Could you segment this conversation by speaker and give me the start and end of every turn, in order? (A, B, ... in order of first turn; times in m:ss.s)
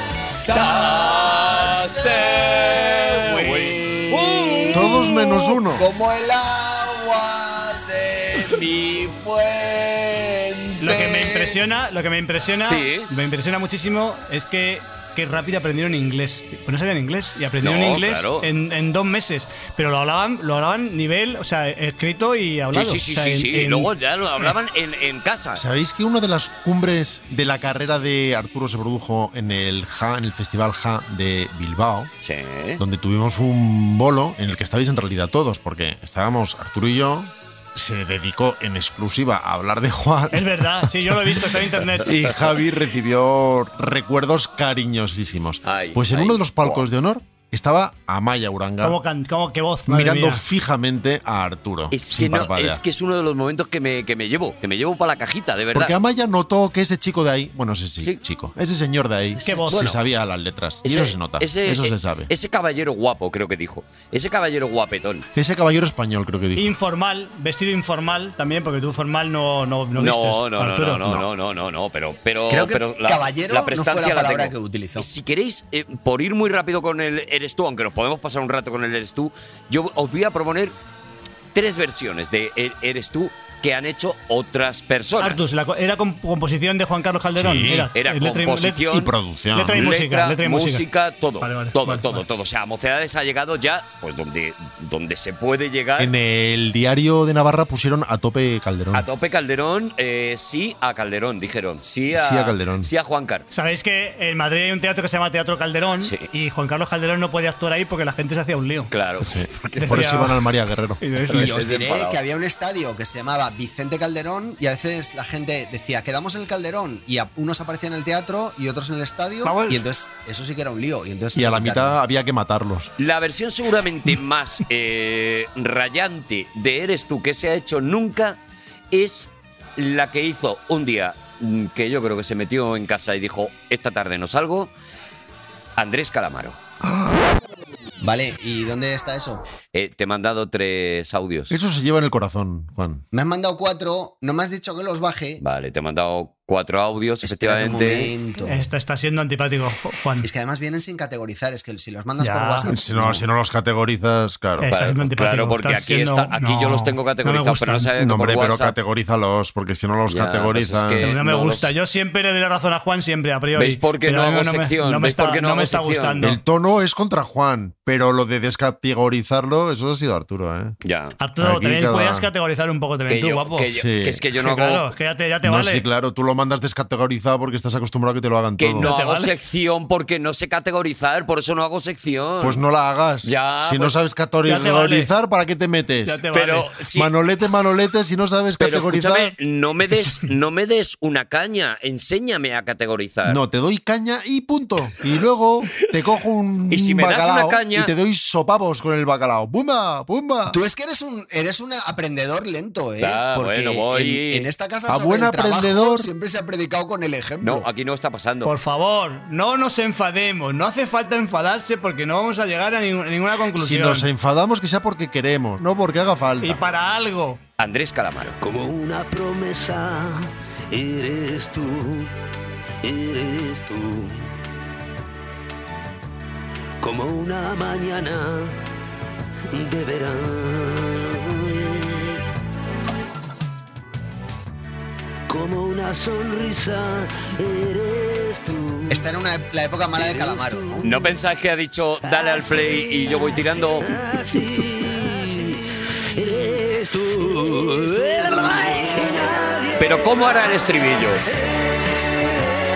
0:00.4-0:05.0 A
0:00.4-0:11.6 B
0:04.7-0:05.8 C
0:10.8-0:23.9 D
0:12.6-0:13.1 A
0:17.6-0:18.5 A
0:22.7-0:25.6 A
0:25.5-0:32.1 C
0:32.2-0:32.8 A
0:32.8-0:41.4 C
0:40.3-0:42.1 D
0:42.0-0:49.0 C
0:45.6-0:46.9 A
0:48.8-0:50.4 D
0:49.8-0:52.8 C
0:51.9-0:55.9 A
0:55.7-1:02.3 C
0:59.4-1:00.0 A
0:59.4-0:59.8 D
1:00.8-1:05.3 A
1:05.4-1:06.7 C
1:06.6-1:11.2 D
1:10.0-1:20.7 A
1:12.5-1:15.1 B
1:21.5-1:25.5 A
1:25.2-1:28.9 D
1:27.3-1:27.9 C
1:27.9-1:29.1 A
1:28.9-1:29.9 C
1:29.5-1:30.8 D
1:29.7-1:36.1 A
1:31.4-1:32.2 D
1:36.0-1:39.0 C
1:38.9-1:43.4 A
1:42.1-1:42.9 C
1:43.5-1:48.9 D
1:46.0-1:46.3 A
1:48.9-1:50.0 A
1:49.2-1:51.2 C
1:49.8-1:50.3 D
1:51.0-1:51.4 D
1:51.3-1:52.2 A
1:51.3-2:02.0 B
1:59.4-1:59.8 D
2:01.3-2:02.9 C
2:03.0-2:08.4 A
2:08.9-2:14.7 A
2:15.8-2:16.6 A
2:16.8-2:17.2 C
2:18.0-2:19.4 B
2:19.7-2:21.5 A
2:21.5-2:23.0 C
2:23.1-2:25.4 B
2:25.4-2:28.1 A
2:27.2-2:28.6 B
2:28.5-2:30.3 D
2:30.2-2:33.2 B
2:32.2-2:32.7 D
2:32.7-2:34.7 C
2:34.6-2:37.9 D
2:34.7-2:38.7 A
2:38.0-2:41.1 C
2:40.1-2:41.7 A
2:41.0-2:46.4 D
2:43.6-2:46.2 A
2:46.2-2:50.7 C
2:50.8-2:51.1 A
2:51.2-2:53.7 D
2:51.4-2:52.3 C
2:53.1-2:54.9 A
2:53.7-2:54.2 C
2:54.3-2:55.8 D
2:55.4-2:58.9 C
2:58.6-3:02.6 A
2:58.8-2:59.3 D
3:02.4-3:06.2 C
3:03.2-3:03.9 A
3:04.4-3:05.1 D
3:06.0-3:06.7 D
3:06.3-3:07.1 A
3:06.9-3:09.3 C
3:08.6-3:13.4 A
3:13.2-3:20.6 C
3:16.7-3:17.9 A
3:20.5-3:27.6 B
3:23.0-3:24.5 A
3:24.9-3:26.1 C
3:27.4-3:28.5 A
3:28.4-3:34.1 D
3:33.5-3:36.6 C
3:36.4-3:37.4 D
3:37.6-3:38.4 A
3:38.4-3:42.1 E
3:42.8-3:44.3 E
3:46.8-3:48.6 E
3:49.5-3:52.2 E
3:55.3-3:59.1 E
3:58.9-4:00.8 B
3:59.9-4:01.1 E
4:00.8-4:03.9 A
4:02.0-4:05.6 E
4:06.2-4:10.5 E
4:09.8-4:11.2 A
4:11.3-4:12.3 E